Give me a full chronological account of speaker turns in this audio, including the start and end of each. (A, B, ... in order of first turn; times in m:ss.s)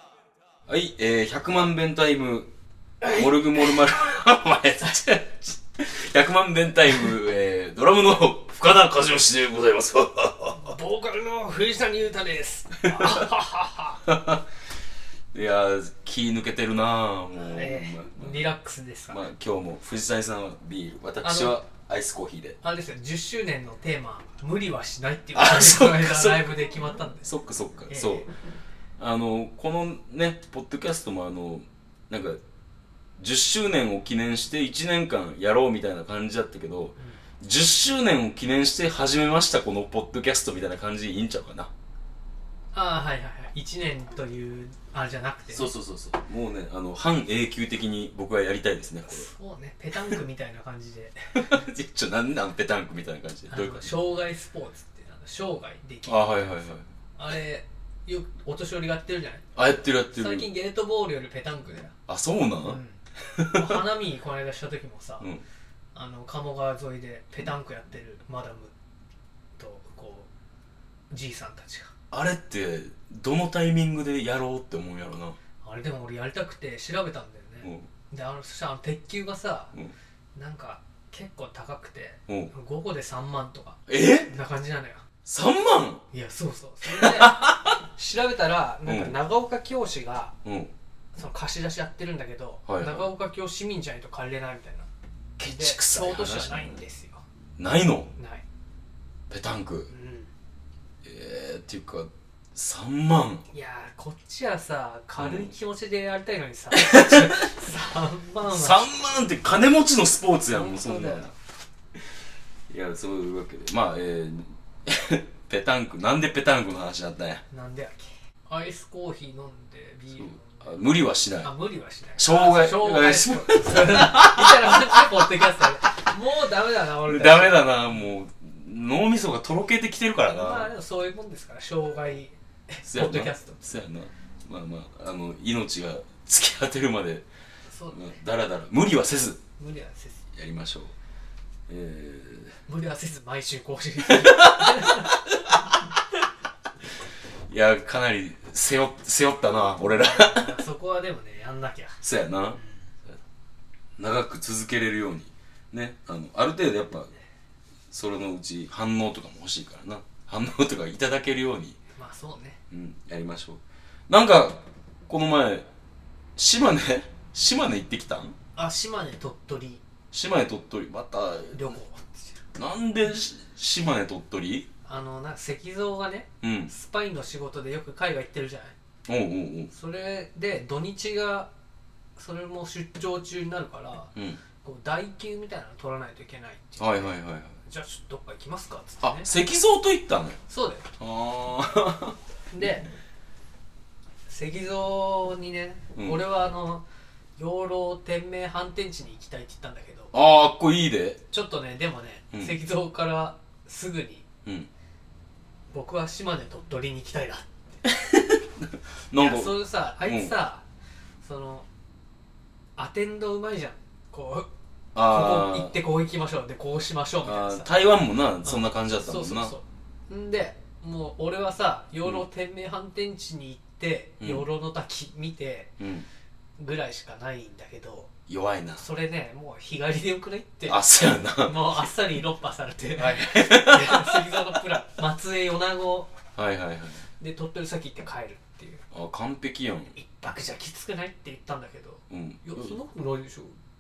0:00.7-0:02.5 A
0:03.0-0:03.8 B
0:03.0-0:10.7 A
0:10.6-0:14.0 B
0:12.9-0:13.2 A
0:14.0-0:14.4 A
0:15.3-0:18.5 A
0:17.4-0:19.2 B
0:19.1-0:22.6 A
0:21.2-0:21.6 B
0:22.6-0:27.3 B
0:25.3-0:28.3 A
0:27.9-0:28.3 B
0:29.0-0:32.4 A
0:33.2-0:41.7 A
0:42.7-0:45.7 B
0:45.5-0:49.3 A
0:49.1-0:51.5 B
0:49.9-0:50.2 A
0:51.4-0:54.0 A
0:53.5-0:56.5 B
0:56.1-0:56.9 A
0:57.2-0:59.5 B
0:59.6-1:00.5 A
1:00.0-1:01.9 B
1:02.1-1:03.8 A
1:02.6-1:03.0 B
1:03.5-1:05.3 B
1:06.0-1:08.7 B
1:09.6-1:10.3 B
1:11.1-1:11.9 B
1:12.1-1:15.4 A
1:15.6-1:19.8 B
1:20.4-1:25.0 B
1:23.9-1:24.3 A
1:25.3-1:26.0 A
1:26.1-1:30.4 B
1:26.8-1:27.8 A
1:28.8-1:29.2 A
1:30.4-1:30.7 A
1:31.2-1:34.9 B
1:32.7-1:33.1 A
1:35.4-1:36.8 A
1:35.4-1:37.2 B
1:37.6-1:38.1 A
1:38.2-1:38.4 B
1:39.3-1:39.9 A
1:39.9-1:40.3 B
1:41.0-1:43.4 A
1:43.5-1:48.8 B
1:45.2-1:45.5 A
1:46.8-1:47.4 A
1:48.5-1:51.3 A
1:50.5-1:51.3 B
1:52.7-1:57.4 A
1:57.5-2:00.9 B
2:00.2-2:01.5 A
2:01.4-2:07.8 B
2:02.2-2:05.7 A
2:07.0-2:10.7 A
2:10.3-2:13.7 B
2:12.8-2:17.3 A
2:17.7-2:18.2 B
2:17.9-2:19.4 A
2:19.6-2:20.2 B
2:20.3-2:20.9 A
2:21.7-2:22.6 A
2:22.7-2:25.3 B
2:24.0-2:25.8 A
2:27.5-2:30.6 A
2:30.0-2:32.0 B
2:32.0-2:32.6 A
2:32.6-2:32.9 B
2:34.0-2:37.1 A
2:37.9-2:41.8 A
2:42.0-2:42.6 B
2:42.7-2:45.7 A
2:46.4-2:48.4 A
2:48.6-2:49.8 B
2:50.1-2:51.8 A
2:51.5-2:52.4 B
2:52.6-2:54.7 A
2:54.8-2:58.8 B
2:56.4-2:56.7 A
2:59.1-2:59.7 A
2:59.7-3:01.5 B
3:02.2-3:09.3 B
3:06.8-3:07.6 A
3:09.0-3:10.4 A
3:10.5-3:10.9 B
3:11.0-3:12.2 A
3:12.5-3:12.9 B
3:14.3-3:16.8 B
3:16.0-3:16.2 A
3:17.4-3:20.1 B
3:20.1-3:21.2 A
3:21.3-3:24.2 B
3:22.3-3:22.6 A
3:25.7-3:27.8 B
3:27.9-3:30.4 A
3:29.2-3:30.6 B
3:31.2-3:31.7 B
3:32.8-3:34.5 B
3:35.0-3:35.8 A
3:35.0-3:37.7 B
3:37.2-3:39.6 A
3:38.4-3:45.7 B
3:44.2-3:44.5 A
3:45.8-3:46.1 A
3:46.6-3:48.1 B
3:48.3-3:48.8 A
3:48.8-3:56.1 B
3:50.7-3:51.8 A
3:53.0-3:54.5 A
3:56.4-3:57.1 A
3:57.2-3:58.8 B
3:58.9-3:59.9 A
3:59.9-4:03.6 B
4:02.1-4:02.8 A